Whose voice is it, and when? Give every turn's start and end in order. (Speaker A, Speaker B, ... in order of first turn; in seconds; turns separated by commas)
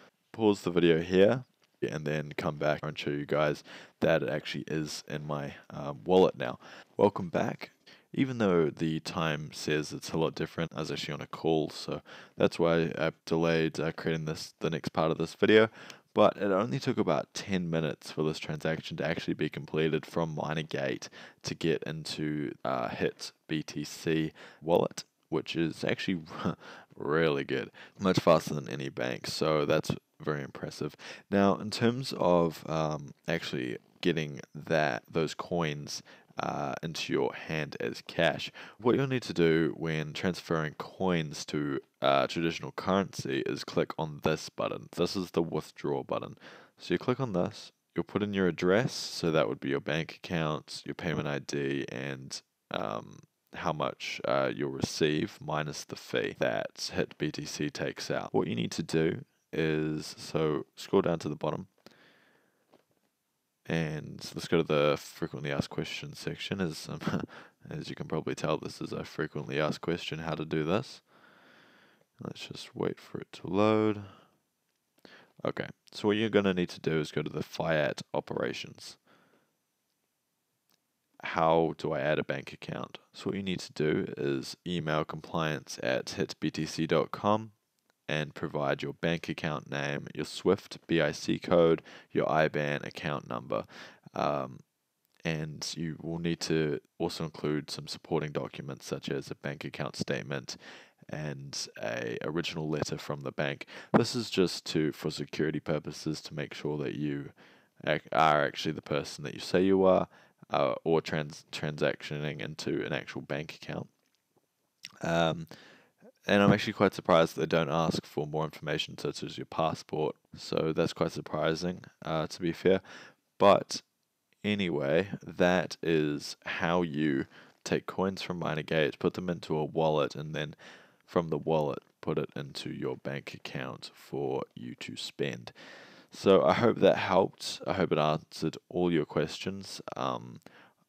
Speaker A: 0.3-61.7, Speaker A: 63.7-71.0, Speaker A: 72.2-74.1, Speaker A: 75.4-79.0, Speaker A: 81.2-87.5, Speaker A: 88.1-94.6, Speaker A: 95.3-100.6, Speaker A: 101.1-113.9, Speaker A: 115.0-115.5, Speaker A: 116.3-122.8, Speaker A: 123.4-123.8, Speaker A: 124.4-135.5, Speaker A: 136.1-140.4